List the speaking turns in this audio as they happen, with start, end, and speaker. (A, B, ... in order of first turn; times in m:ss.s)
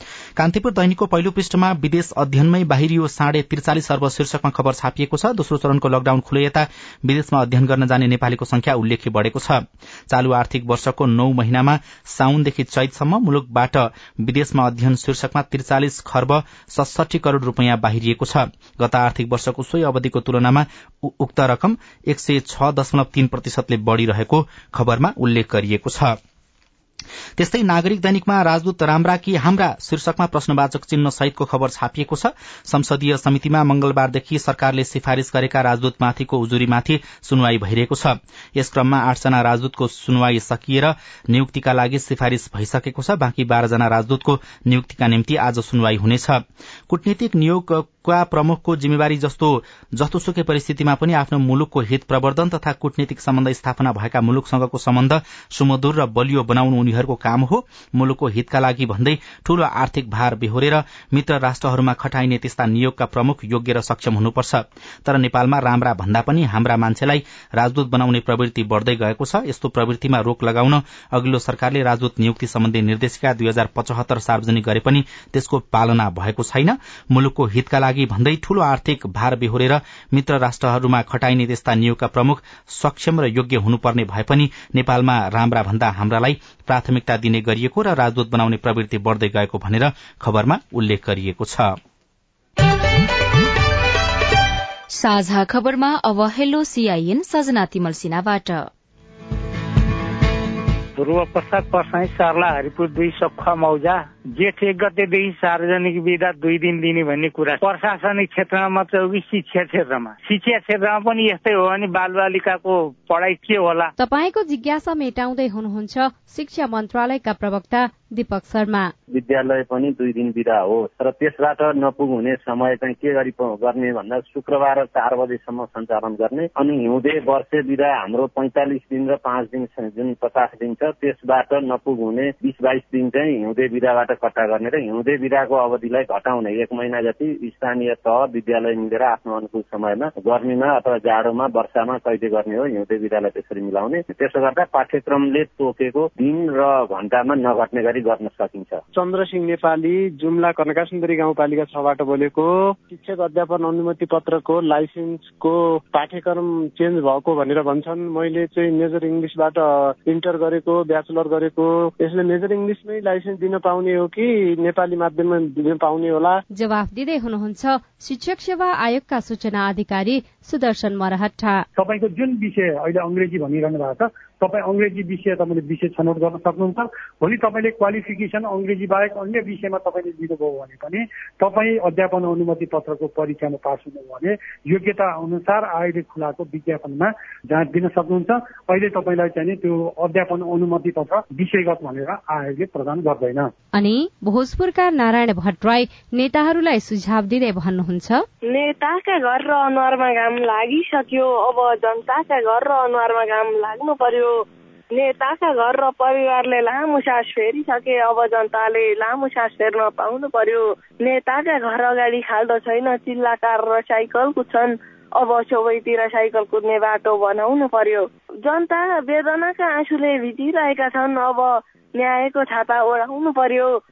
0:00.4-0:26.2 A
0:27.4-1:31.8 A
1:34.9-1:38.7 B
1:41.0-1:53.9 C
1:54.0-1:58.9 D
1:59.1-2:28.8 E
2:29.0-2:46.4 F
2:46.5-2:51.6 D
2:51.8-3:13.5 G
3:13.7-3:18.2 D
3:18.5-3:24.4 H
3:24.9-3:43.7 H